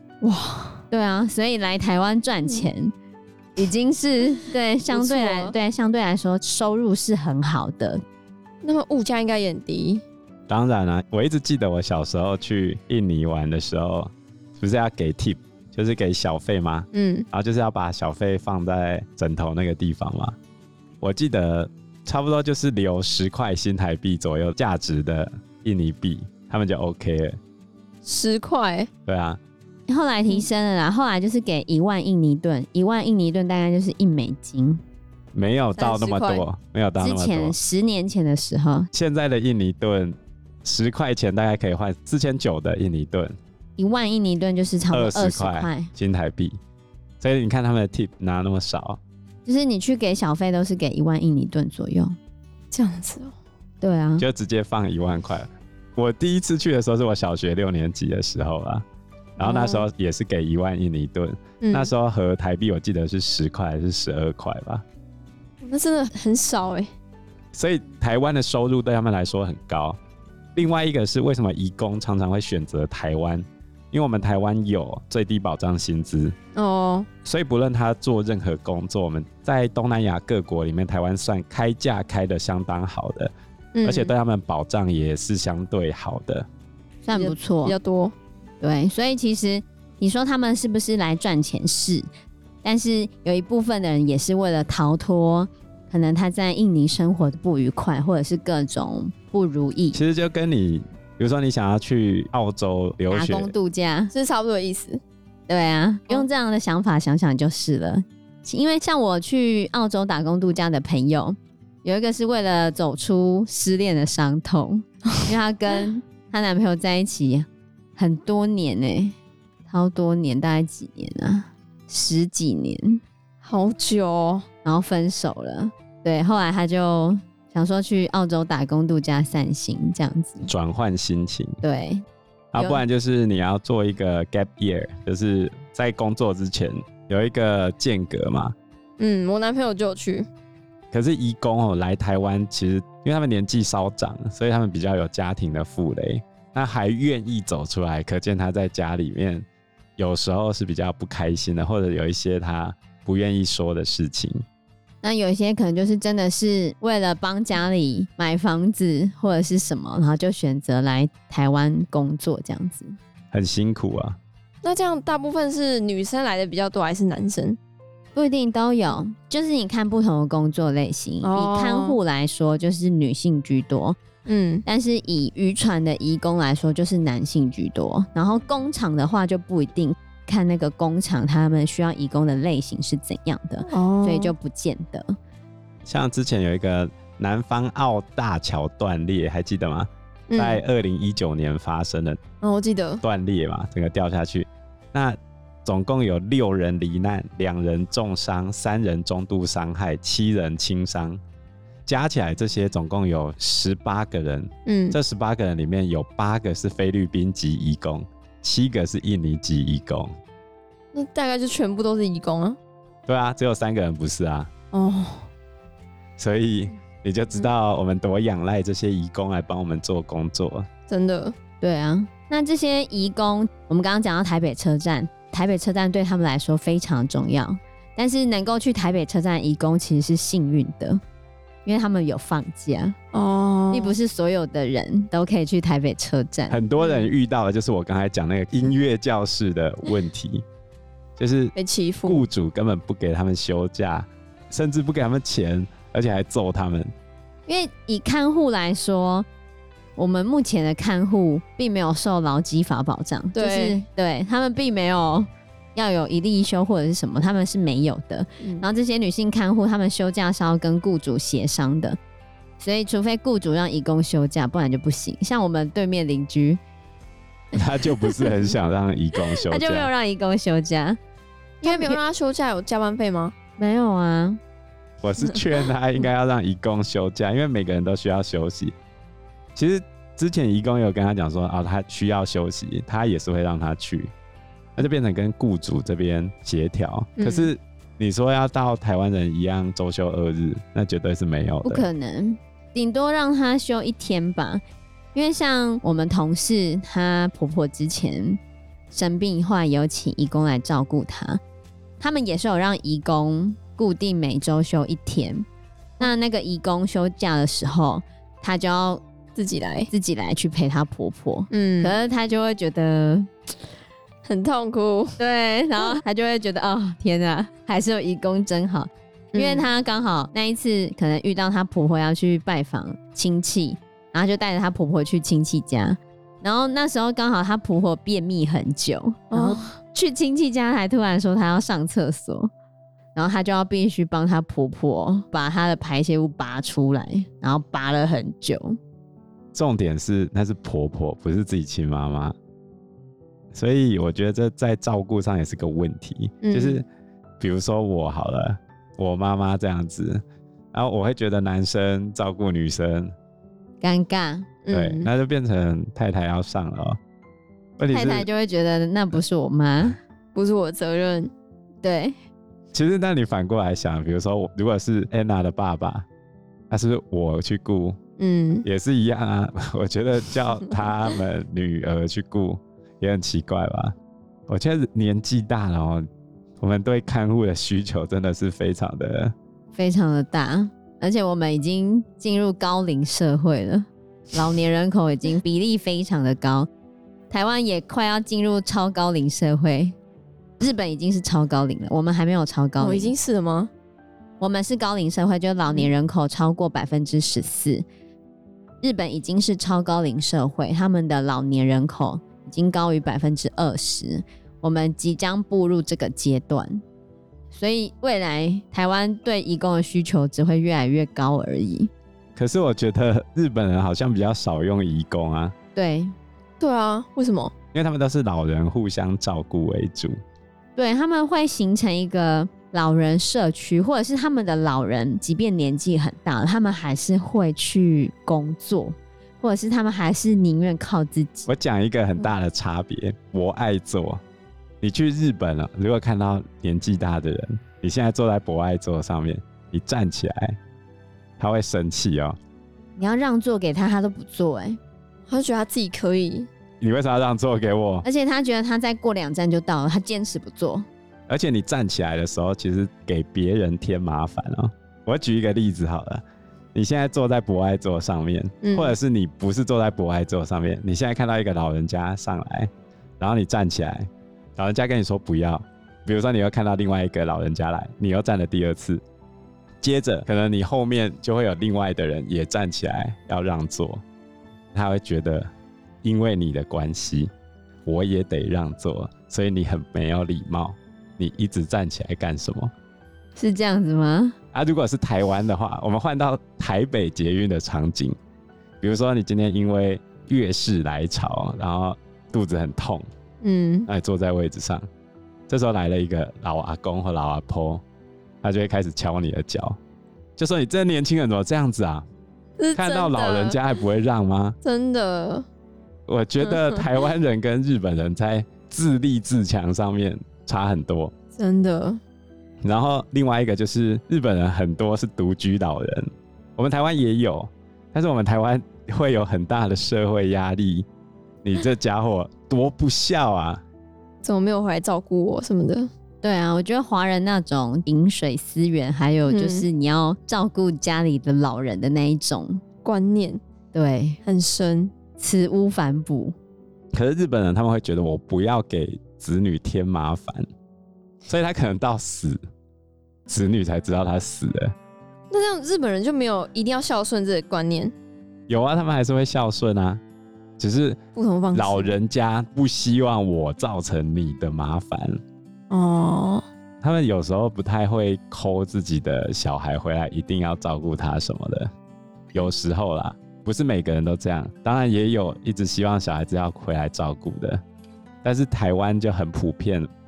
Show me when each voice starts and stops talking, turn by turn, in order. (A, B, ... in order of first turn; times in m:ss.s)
0:00.2-0:00.8 A
0:00.9-0:02.9 B
0:03.6-0:08.0 B
0:04.9-0:05.5 A
0:08.6-0:10.0 A
0:10.5-0:20.4 C
0:16.9-0:17.3 A
0:21.0-0:27.4 C
0:28.0-0:28.9 A
0:29.1-0:29.4 C
0:29.9-0:34.8 B
0:35.3-0:37.6 C
0:35.8-0:36.5 A
0:37.0-0:38.9 B
0:38.9-0:43.4 C
0:43.8-0:45.9 B
0:44.9-0:46.6 C
0:47.2-0:49.0 C
0:49.5-0:52.2 B
0:52.7-0:53.3 A
0:53.8-0:54.3 B
0:54.2-0:58.8 C
0:59.4-0:59.9 A
0:59.4-1:04.8 C
1:01.6-1:01.9 A
1:05.6-1:06.9 A
1:07.5-1:10.0 C
1:10.6-1:16.4 C
1:16.6-1:17.1 A
1:17.2-1:23.3 C
1:23.8-1:24.1 A
1:23.8-1:26.5 C
1:27.0-1:27.8 B
1:27.1-1:28.1 A
1:28.6-1:32.1 B
1:32.6-1:40.0 B
1:39.9-1:43.5 C
1:43.1-1:44.1 B
1:44.1-1:45.0 A
1:45.5-1:57.5 B
1:58.0-1:59.2 B
1:59.7-2:03.0 B
2:03.4-2:04.4 A
2:04.6-2:10.5 B
2:10.4-2:11.6 C
2:11.6-2:12.0 B
2:12.5-2:18.6 C
2:12.6-2:12.8 B
2:19.0-2:20.3 A
2:20.9-2:29.5 C
2:30.0-2:34.4 C
2:35.0-2:43.0 B
2:43.3-2:44.2 C
2:44.6-2:47.6 A
2:48.2-2:54.0 B
2:51.2-2:52.0 A
2:54.3-2:54.6 A
2:54.6-3:05.2 B
3:03.7-3:04.3 A
3:05.9-3:12.2 C
3:10.3-3:10.6 A
3:12.4-3:13.0 A
3:13.0-3:21.2 C
3:21.9-3:30.1 C
3:24.7-3:25.0 A
3:30.9-3:32.6 A
3:33.1-3:34.5 C
3:34.7-3:35.3 A
3:36.2-3:40.7 C
3:40.9-3:41.4 A
3:41.6-3:51.0 B
3:51.7-3:53.0 B
3:53.1-3:54.0 A
3:53.7-3:56.6 B
3:56.5-4:00.4 C
3:56.8-3:57.1 A
4:01.2-4:01.6 C
4:01.6-4:02.3 A
4:02.1-4:06.9 C
4:07.5-4:09.3 B
4:10.0-4:22.0 B
4:13.3-4:13.8 A
4:22.6-4:26.6 B
4:27.5-4:29.9 C
4:27.9-4:28.3 B
4:29.4-4:31.0 B
4:31.6-4:33.3 A
4:31.6-4:32.0 B
4:33.6-4:34.4 B
4:35.0-4:38.7 C
4:39.6-4:44.1 C
4:44.8-4:51.9 C
4:47.2-4:47.5 A
4:51.6-4:54.6 B
4:55.2-4:58.4 B
4:58.9-5:01.4 B
5:02.0-5:05.4 B
5:06.0-5:09.0 B
5:09.4-5:09.9 A
5:09.9-5:13.3 B
5:11.5-5:12.0 A
5:14.3-5:15.1 A
5:15.2-5:32.5 B
5:19.3-5:19.7 A
5:29.3-5:29.7 A
5:33.2-5:38.8 B
5:39.5-5:42.4 C
5:43.5-5:46.9 C
5:46.4-5:46.8 A
5:47.4-5:53.1 C
5:53.8-5:54.5 B
5:54.6-5:55.1 A
5:54.7-5:57.0 C
5:57.8-5:58.3 C
5:57.9-6:00.0 B
6:00.4-6:01.3 A
6:01.8-6:02.2 B
6:02.7-6:06.1 C
6:06.7-6:08.0 C
6:08.2-6:08.7 A
6:08.6-6:13.9 C
6:14.5-6:16.1 C
6:16.6-6:19.3 C
6:19.7-6:26.7 B
6:27.3-6:30.0 B
6:30.6-6:33.1 B
6:32.8-6:33.7 A
6:34.4-6:37.8 B
6:38.8-6:46.8 B
6:47.5-6:51.9 B
6:52.4-6:55.5 C
6:55.8-6:56.2 B
6:56.6-6:57.5 A
6:57.7-7:00.2 C
7:00.8-7:11.5 B
7:11.5-7:14.2 C
7:14.8-7:20.6 C
7:21.4-7:22.4 C
7:23.0-7:24.8 B
7:25.3-7:26.5 A
7:26.8-7:28.0 C
7:28.0-7:30.9 B
7:31.3-7:49.0 C
7:38.6-7:39.0 A
7:49.8-7:54.0 C
7:54.7-7:55.5 C
7:56.0-7:57.3 C
7:57.9-8:02.7 C
8:03.4-8:04.4 B
8:04.5-8:08.2 C
8:08.8-8:13.1 C
8:13.4-8:13.9 A
8:13.9-8:14.8 C
8:15.5-8:17.8 C
8:18.4-8:19.8 C
8:20.4-8:22.1 C
8:22.6-8:23.6 A
8:22.8-8:24.6 C
8:24.6-8:25.5 A
8:26.1-8:31.1 C
8:26.4-8:26.9 A
8:31.4-8:32.0 A
8:32.6-8:40.9 C
8:41.4-8:43.6 C
8:44.2-8:45.9 A
8:46.2-8:52.6 B
8:49.3-8:49.7 A
8:52.8-8:53.4 A
8:53.7-8:54.2 B
8:54.2-8:54.9 A
8:55.2-8:56.4 B
8:56.9-9:00.4 C
9:01.3-9:02.4 C
9:03.3-9:04.7 C
9:05.3-9:07.9 A
9:08.5-9:10.0 C
9:10.6-9:11.0 C
9:11.2-9:12.0 A
9:11.5-9:15.2 C
9:15.7-9:16.4 A
9:16.8-9:21.7 C
9:22.3-9:27.6 C
9:28.2-9:29.9 C